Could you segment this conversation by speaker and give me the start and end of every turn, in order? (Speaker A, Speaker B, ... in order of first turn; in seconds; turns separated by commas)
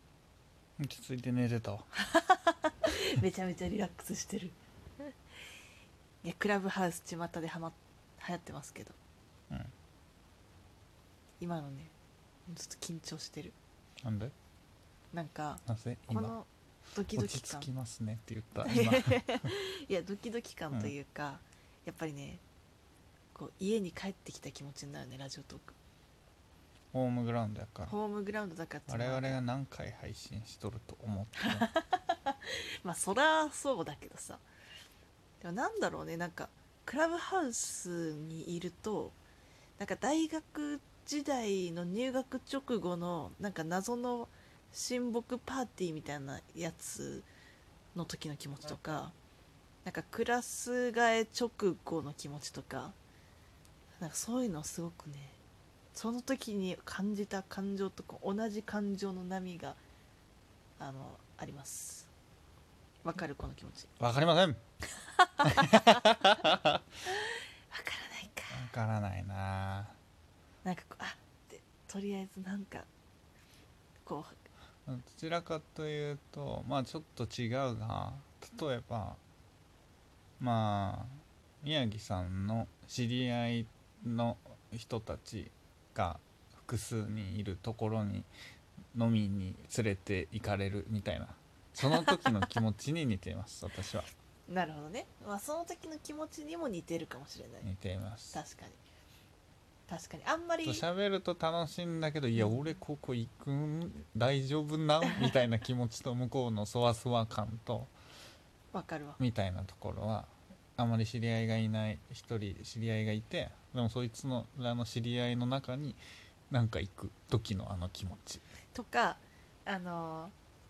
Speaker A: 0.8-1.9, Speaker B: 1.9-4.5, Speaker B: 6.2-8.9, Speaker B: 11.4-11.9, Speaker B: 12.5-13.6, Speaker A: 14.0-14.3, Speaker B: 15.1-17.7, Speaker A: 15.6-16.4, Speaker A: 17.1-19.4, Speaker B: 18.6-22.4, Speaker B: 23.3-25.8, Speaker A: 26.9-27.9, Speaker B: 27.9-29.4, Speaker A: 28.9-31.7, Speaker B: 31.4-34.4, Speaker B: 35.4-39.2, Speaker B: 39.8-47.3, Speaker B: 47.9-49.1, Speaker B: 49.8-53.0, Speaker B: 54.0-55.4, Speaker B: 55.9-59.8, Speaker B: 60.8-62.1, Speaker B: 63.0-63.9, Speaker A: 64.0-64.6, Speaker B: 65.0-66.1, Speaker A: 65.4-66.8, Speaker B: 67.1-68.6, Speaker A: 68.5-70.0, Speaker B: 70.6-72.9, Speaker B: 74.0-74.3, Speaker A: 74.8-79.2, Speaker A: 80.4-88.3, Speaker A: 88.9-94.1, Speaker B: 91.8-92.5, Speaker B: 94.5-97.7, Speaker A: 97.6-98.4, Speaker B: 98.3-98.8, Speaker B: 99.9-100.8, Speaker A: 100.6-107.9, Speaker B: 108.7-109.2, Speaker A: 109.2-116.0, Speaker A: 116.5-118.4, Speaker B: 118.7-120.3